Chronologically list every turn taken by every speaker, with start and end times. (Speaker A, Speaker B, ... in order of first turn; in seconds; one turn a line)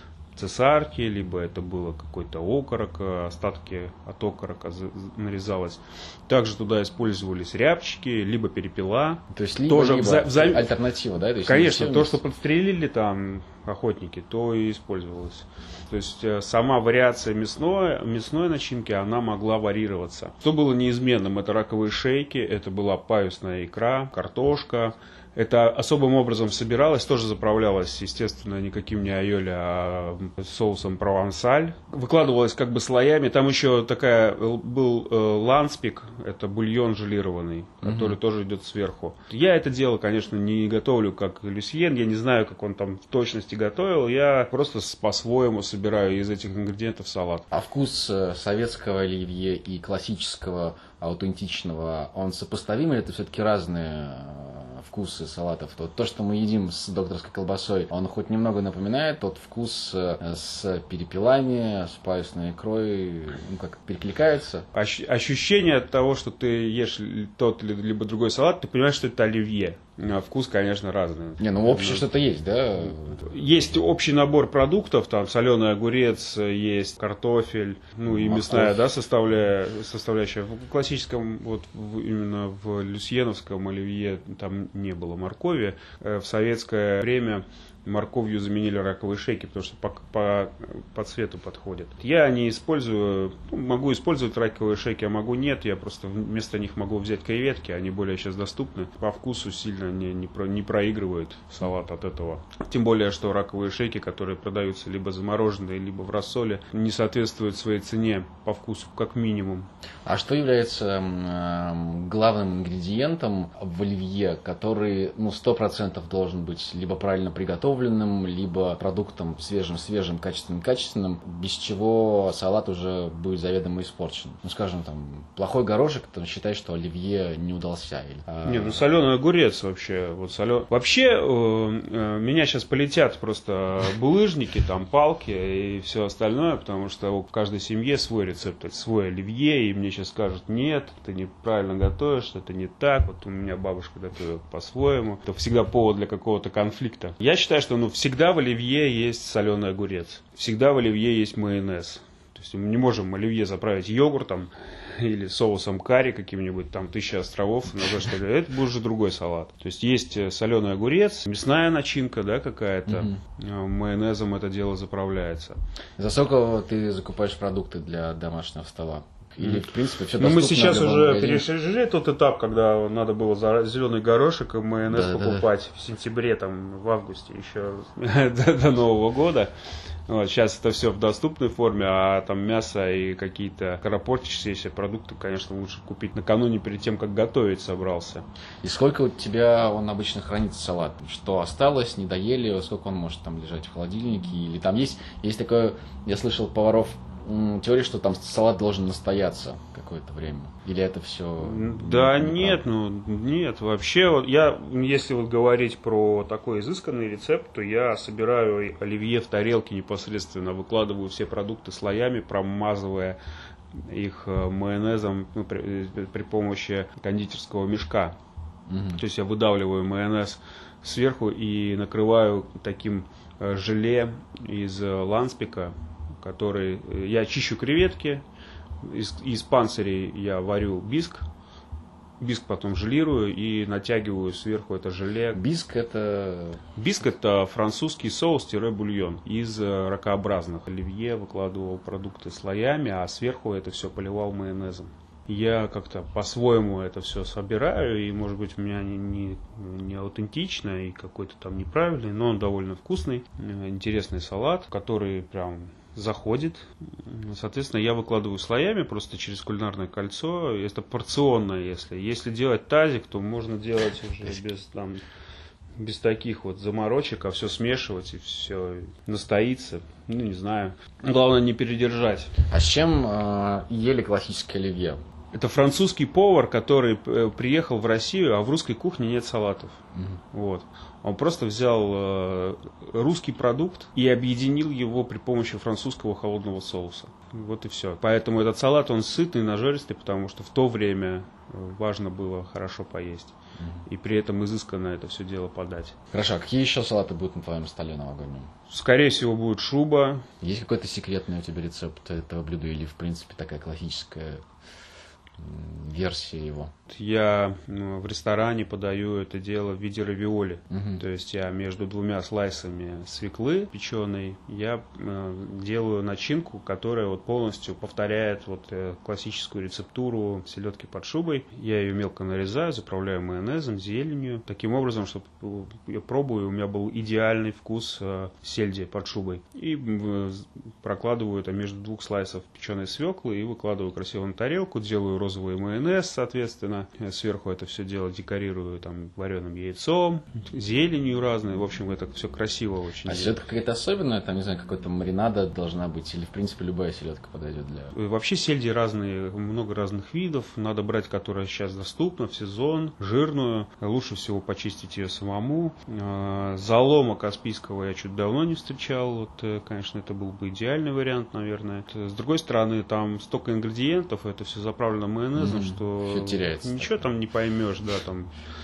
Speaker A: 0.3-10.8
Speaker B: 9.3-12.2
Speaker A: 11.4-47.5
Speaker B: 37.8-38.2
Speaker B: 47.5-64.7
Speaker A: 64.7-72.1
Speaker B: 71.4-73.2
Speaker A: 72.8-109.7
Speaker B: 78.1-78.9
Speaker B: 110.0-128.8
Speaker A: 128.4-165.6
Speaker B: 162.9-163.2
Speaker B: 166.0-171.5
Speaker A: 169.4-179.5
Speaker B: 174.9-175.5
Speaker A: 180.1-188.2
Speaker B: 188.6-202.7
Speaker A: 201.4-213.2
Speaker A: 213.7-218.2
Speaker B: 218.7-219.0
Speaker A: 218.9-228.2
Speaker A: 228.8-231.3
Speaker A: 232.2-235.4
Speaker B: 235.3-236.6
Speaker A: 236.8-265.0
Speaker A: 265.8-272.4
Speaker B: 272.5-275.0
Speaker A: 275.3-293.4
Speaker B: 293.6-293.8
Speaker A: 293.9-296.0
Speaker B: 296.1-298.5
Speaker A: 298.7-300.2
Speaker B: 300.4-304.4
Speaker B: 305.4-306.7
Speaker A: 306.9-343.5
Speaker B: 310.7-311.0
Speaker B: 343.1-347.9
Speaker A: 347.9-368.3
Speaker B: 365.4-367.1